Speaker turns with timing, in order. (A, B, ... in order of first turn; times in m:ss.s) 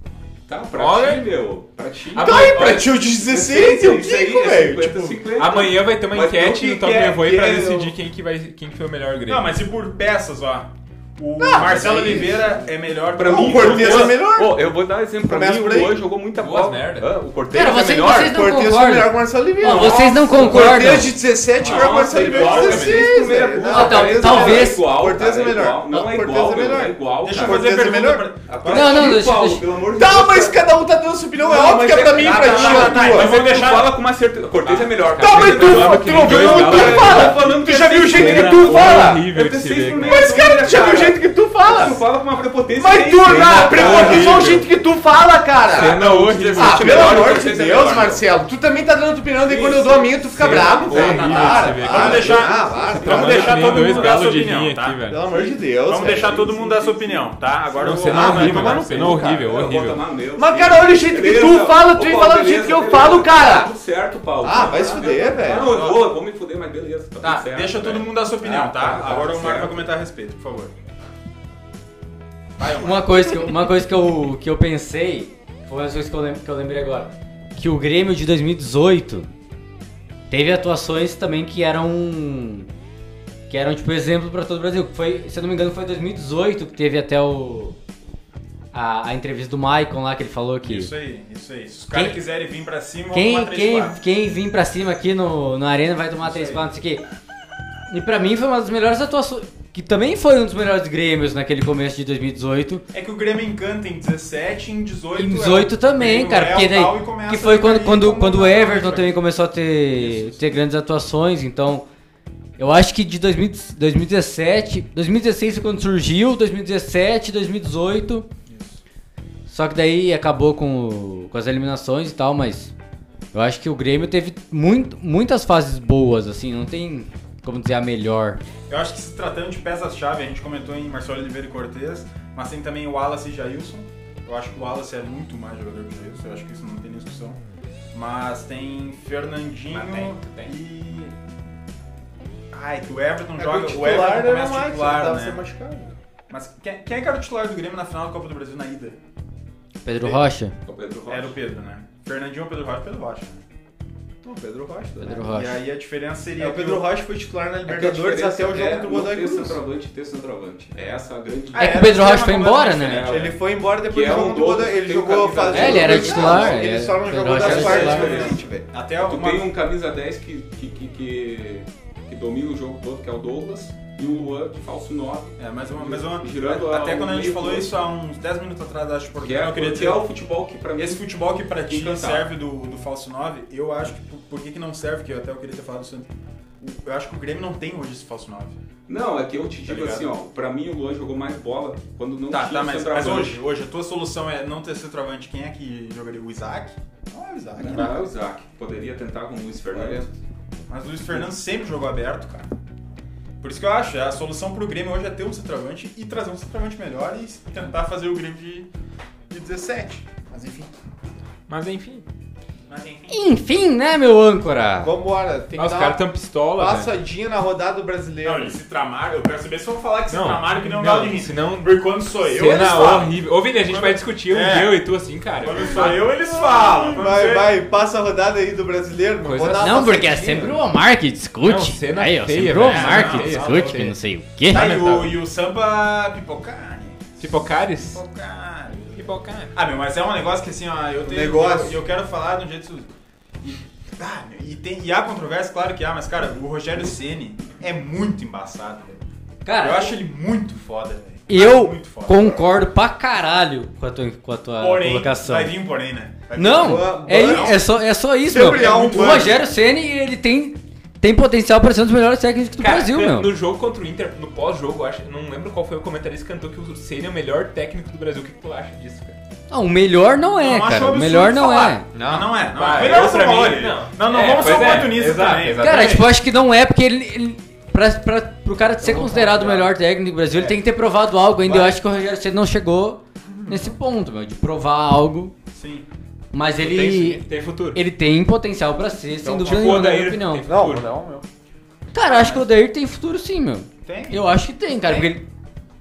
0:00.5-0:07.9 A
0:00.7-0:01.3 B
0:02.1-0:02.9 B
0:02.2-0:05.2 C
0:05.4-0:09.5 B
0:09.3-0:14.2 D
0:11.4-0:12.6 C
0:13.1-0:18.4 A
0:13.2-0:16.0 C
0:16.3-0:17.1 B
0:17.5-0:21.1 E
0:17.6-0:28.3 C
0:19.6-0:21.1 A
0:21.6-0:22.6 D
0:21.6-0:27.9 A
0:22.0-0:23.2 B
0:23.7-0:24.8 E
0:27.2-0:29.2 D
0:28.5-0:30.6 A
0:28.7-0:29.6 E
0:29.9-0:33.4 C
0:31.4-0:44.6 A
0:32.1-0:34.0 D
0:34.6-0:37.6 B
0:35.2-0:39.2 C
0:37.8-0:38.8 D
0:38.6-0:40.5 B
0:40.0-0:42.0 C
0:42.7-0:46.0 C
0:43.3-0:44.6 B
0:45.7-0:48.2 A
0:45.7-0:47.3 B
0:46.5-0:53.6 C
0:46.7-0:47.6 D
0:49.5-0:54.2 A
0:50.3-0:52.4 B
0:50.9-0:55.0 D
0:53.0-0:55.2 B
0:55.1-0:56.5 C
0:55.3-0:57.3 A
0:55.9-0:58.9 D
0:57.8-1:00.0 B
0:58.1-1:09.9 A
0:58.1-0:59.5 C
1:00.4-1:03.7 C
1:04.4-1:05.7 C
1:04.5-1:06.1 D
1:07.2-1:10.7 D
1:12.6-1:13.5 D
1:12.6-1:19.3 E
1:20.3-1:22.7 E
1:23.5-1:27.8 E
1:28.7-1:30.9 E
1:30.6-1:34.0 D
1:31.9-1:32.2 E
1:33.1-1:37.0 E
1:36.2-1:36.6 D
1:37.9-1:42.8 E
1:42.9-1:49.2 D
1:45.2-1:51.8 E
1:49.9-1:50.4 D
1:52.6-1:58.2 E
1:58.5-1:58.8 D
1:59.5-2:02.7 E
2:03.3-2:08.4 E
2:08.7-2:17.4 D
2:17.9-2:21.1 D
2:19.7-2:20.5 B
2:22.5-2:25.4 D
2:23.4-2:25.9 C
2:26.3-2:29.0 D
2:29.8-2:30.5 E
2:30.6-2:31.4 A
2:31.1-2:33.4 D
2:34.2-2:35.3 A
2:35.0-2:35.6 E
2:35.2-2:37.0 D
2:36.4-2:39.6 C
2:37.6-2:42.1 A
2:41.5-2:43.3 D
2:41.5-2:43.1 E
2:42.8-2:46.6 A
2:43.1-2:48.6 C
2:45.5-2:48.1 E
2:47.2-2:48.4 A
2:47.3-2:49.5 D
2:49.0-2:57.7 A
2:55.4-3:00.0 D
2:59.2-3:01.0 A
3:00.8-3:06.1 D
3:01.6-3:02.3 A
3:06.6-3:08.6 D
3:08.9-3:13.4 A
3:09.6-3:10.2 D
3:12.3-3:18.1 D
3:17.6-3:20.1 A
3:19.7-3:20.0 D
3:20.7-3:22.5 D
3:23.4-3:28.7 D
3:29.3-3:30.7 D
3:30.3-3:30.6 C
3:31.5-3:32.0 B
3:32.7-3:33.2 D
3:33.1-3:34.9 E
3:34.8-3:36.0 C
3:35.5-3:36.9 B
3:36.5-3:38.6 C
3:38.2-3:44.8 D
3:40.1-3:41.7 B
3:42.2-3:46.2 B
3:45.4-3:47.5 D
3:46.9-3:50.6 C
3:49.2-3:49.8 B
3:49.6-3:54.7 E
3:51.4-3:53.9 B
3:52.7-3:53.7 D
3:54.5-3:55.2 B
3:54.5-4:02.9 D
3:57.2-3:58.0 B
3:58.9-3:59.5 B
4:01.0-4:01.8 C
4:03.4-4:09.0 D
4:09.4-4:09.9 E
4:09.6-4:12.4 D
4:11.3-4:15.5 E
4:14.6-4:17.6 D
4:16.3-4:23.3 E
4:16.4-4:17.6 C
4:18.3-4:19.4 C
4:18.5-4:19.3 B
4:18.6-4:19.3 D
4:22.6-4:29.2 B
4:29.5-4:31.8 E
4:30.4-4:36.1 D
4:31.9-4:32.3 C
4:32.6-4:36.1 B
4:35.6-4:45.3 E
4:39.0-4:39.7 C
4:41.4-4:41.8 C
4:43.4-4:43.7 C
4:45.5-4:45.8 D
4:46.3-4:50.4 E
4:46.6-4:47.8 B
4:49.2-4:49.8 C
4:49.4-4:50.9 B
4:50.4-4:51.2 C
4:51.9-4:55.2 E
4:52.0-4:52.5 D
4:53.8-4:55.1 D